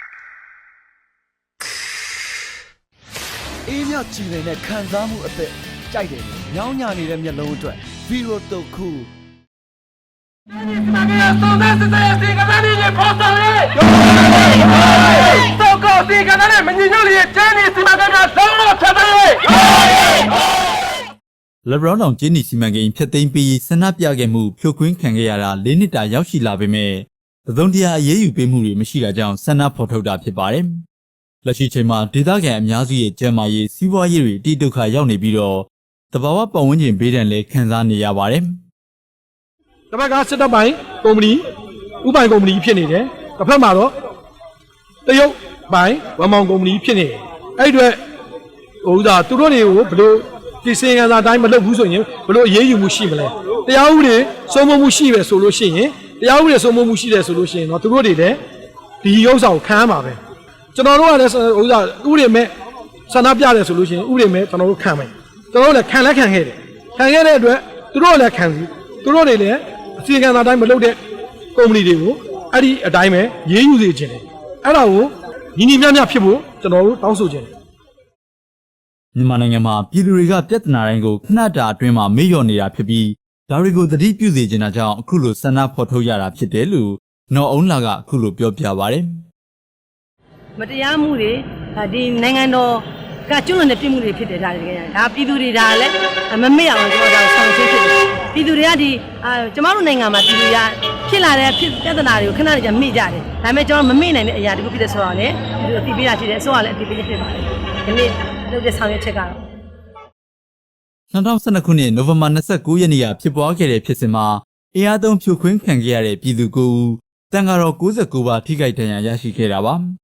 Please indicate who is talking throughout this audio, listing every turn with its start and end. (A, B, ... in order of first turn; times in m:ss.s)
0:03.7-0:09.1 A
0:10.6-0:13.7 B
0:14.6-0:19.6 B
0:21.6-0:30.8 C
0:31.4-0:38.6 C
0:39.9-0:41.4 D
0:42.0-0:43.9 D
0:45.0-0:48.0 D
0:48.8-0:58.4 D
0:59.0-1:00.2 D
1:00.7-1:02.5 D
1:03.1-1:11.0 D
1:11.5-1:17.5 D
1:19.1-1:29.1 C
1:30.6-1:49.4 E
1:51.1-1:59.8 C